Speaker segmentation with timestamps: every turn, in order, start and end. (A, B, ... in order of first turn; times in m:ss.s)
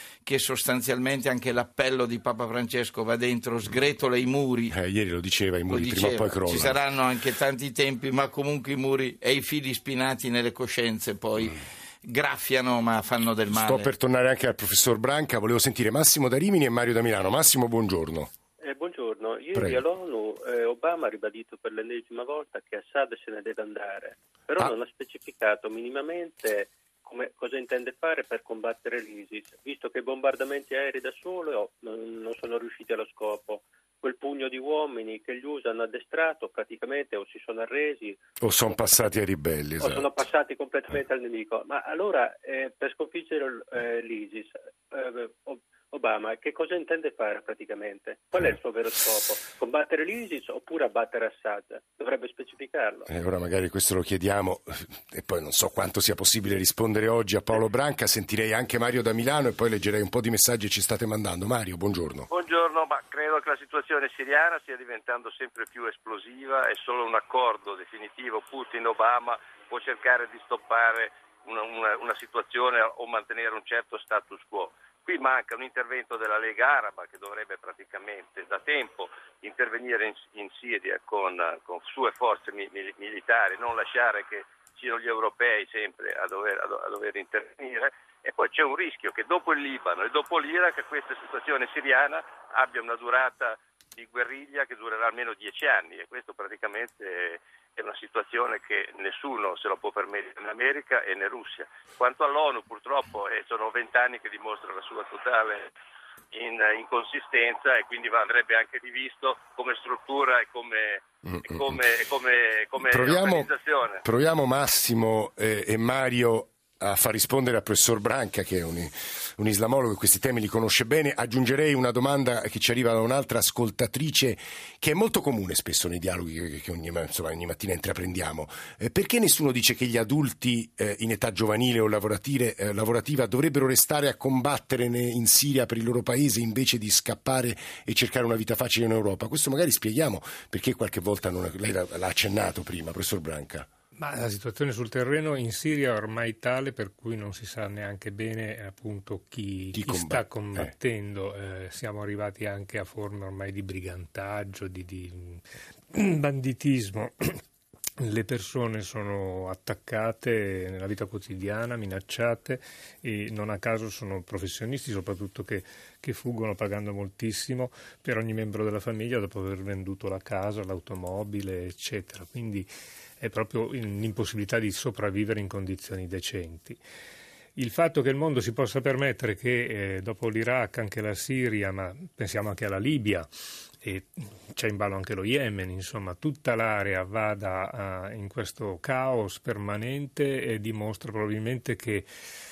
0:00.2-0:04.7 A
0:04.7-0:06.8 B
0:05.7-0:13.9 A
0:13.5-0:18.3 B
0:18.6-0:38.2 C
0:19.5-0:19.8 B
0:38.4-0:40.2 B
0:39.8-0:53.1 C
0:53.1-1:02.3 B
1:02.3-1:45.7 D
1:46.3-1:54.0 D
1:51.2-1:51.8 B
1:52.8-1:53.5 B
1:54.0-2:23.7 B
2:24.0-2:37.4 E
2:29.7-2:30.7 B
2:38.0-2:56.8 E
2:57.6-3:03.3 E
3:03.8-3:12.1 E